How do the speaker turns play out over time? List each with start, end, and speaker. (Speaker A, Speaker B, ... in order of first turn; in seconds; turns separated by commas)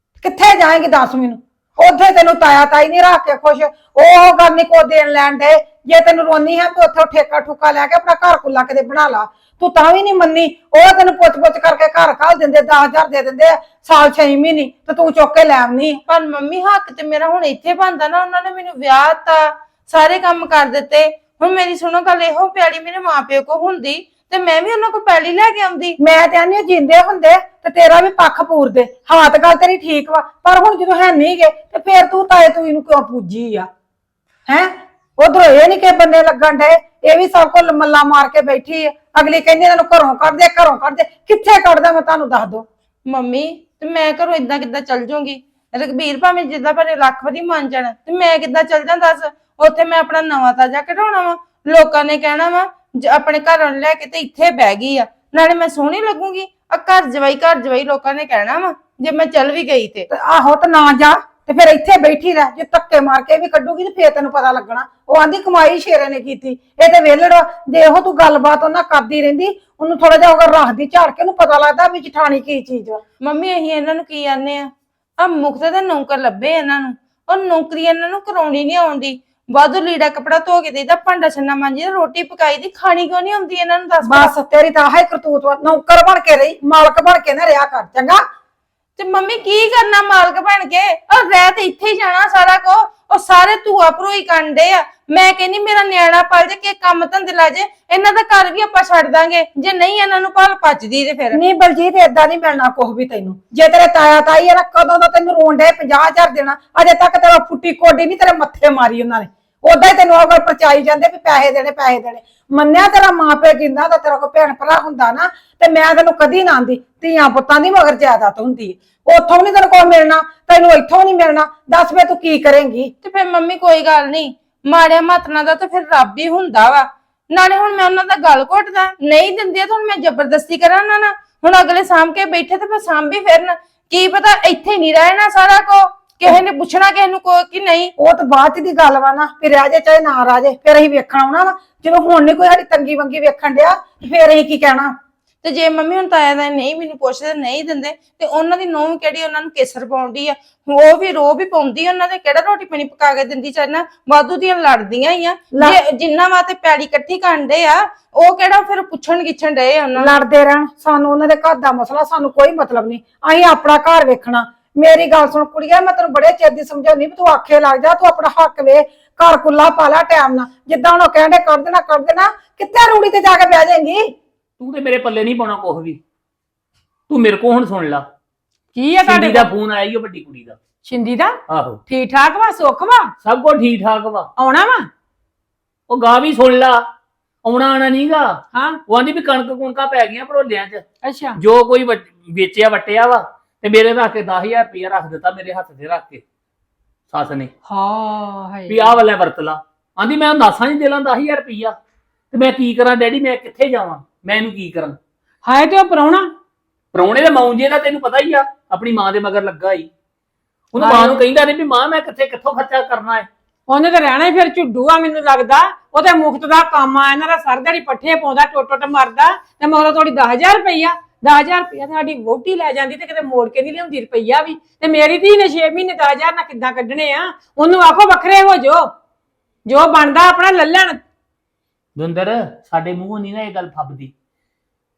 Speaker A: 0.2-16.0, Speaker B: 16.1-25.9, Speaker A: 26.0-33.7, Speaker A: 34.5-42.6, Speaker B: 43.1-60.0, Speaker A: 60.1-73.0, Speaker B: 73.3-74.7, Speaker B: 75.2-84.0, Speaker A: 84.0-88.2, Speaker B: 89.0-101.3, Speaker A: 101.3-122.9, Speaker B: 123.0-137.9, Speaker A: 138.0-144.9, Speaker B: 145.4-160.0, Speaker A: 155.5-155.8, Speaker A: 160.0-174.1, Speaker C: 174.6-176.0, Speaker C: 177.1-178.1, Speaker D: 178.7-179.5, Speaker C: 179.1-180.6, Speaker D: 180.8-183.1, Speaker C: 181.5-181.8, Speaker C: 183.2-184.3, Speaker D: 184.3-184.9, Speaker C: 185.9-186.8, Speaker C: 187.4-190.8, Speaker D: 188.5-188.8, Speaker D: 191.0-191.4, Speaker C: 191.4-196.2, Speaker C: 197.1-197.5, Speaker D: 197.7-198.9, Speaker C: 198.7-201.7, Speaker C: 202.3-205.0, Speaker D: 205.4-206.3, Speaker C: 206.9-209.9, Speaker C: 210.7-213.3, Speaker D: 210.8-211.2, Speaker D: 213.7-228.9, Speaker D: 229.6-231.0, Speaker C: 231.9-234.1